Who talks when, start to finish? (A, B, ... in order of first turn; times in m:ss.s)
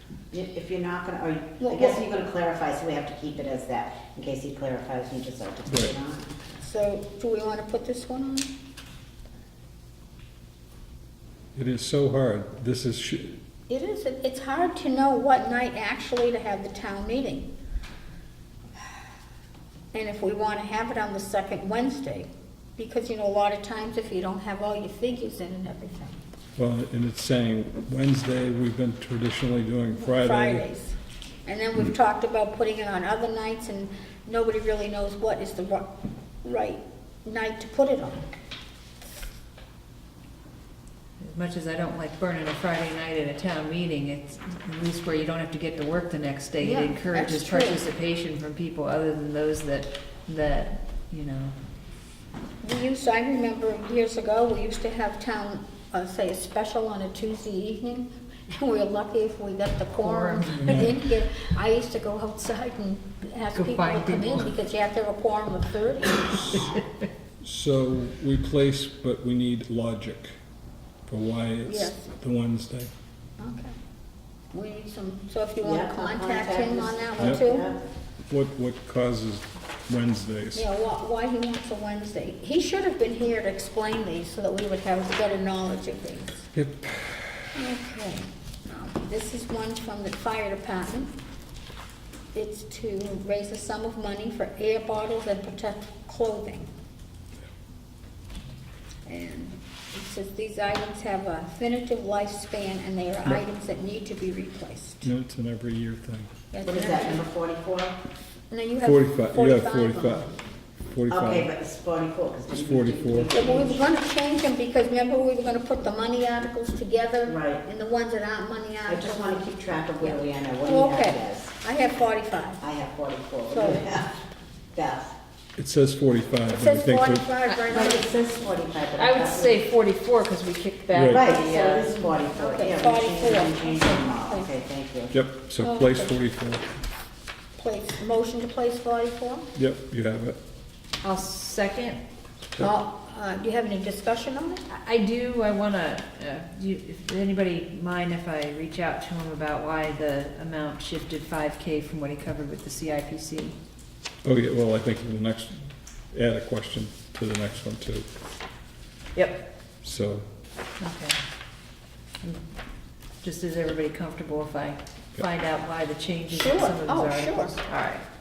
0:00.3-0:06.4 A
0:01.6-0:02.0 B
0:05.7-0:05.9 C
0:06.6-0:08.5 B
0:11.5-0:13.4 C
0:13.7-0:17.5 B
0:19.9-0:26.2 B
0:26.6-0:30.6 C
0:30.0-0:35.9 B
0:36.4-0:38.2 B
0:41.2-0:51.5 D
0:46.6-0:47.8 B
0:52.6-1:06.7 B
1:00.0-1:00.9 D
1:03.5-1:04.5 D
1:07.4-1:10.3 C
1:11.1-1:12.9 C
1:11.7-1:12.1 B
1:13.4-1:13.7 B
1:14.5-1:17.7 B
1:15.6-1:17.8 A
1:18.3-1:20.6 C
1:20.5-1:26.4 B
1:26.5-1:27.3 C
1:27.5-1:31.1 B
1:32.3-1:36.7 B
1:39.1-1:45.0 B
1:45.0-1:46.3 C
1:46.5-1:47.2 B
1:46.6-1:48.0 A
1:48.5-1:50.2 B
1:48.8-1:50.3 C
1:50.9-1:51.5 C
1:51.1-1:53.8 A
1:52.5-1:53.3 C
1:53.3-1:59.4 B
1:57.2-1:57.6 A
1:58.8-2:01.6 A
2:00.0-2:02.6 B
2:02.6-2:04.2 A
2:03.5-2:03.9 B
2:04.7-2:05.1 A
2:05.6-2:07.3 C
2:06.5-2:08.2 B
2:07.7-2:09.6 A
2:08.9-2:12.1 D
2:10.9-2:11.2 C
2:11.0-2:15.1 A
2:12.4-2:14.5 B
2:15.1-2:16.7 C
2:15.6-2:16.1 B
2:17.6-2:19.5 B
2:19.6-2:20.4 C
2:21.0-2:22.0 D
2:22.6-2:24.6 B
2:24.7-2:33.6 D
2:34.2-2:38.1 C
2:39.1-2:39.4 D
2:39.8-2:40.2 C
2:40.8-2:41.2 D
2:43.2-2:48.0 D
2:46.3-2:47.6 B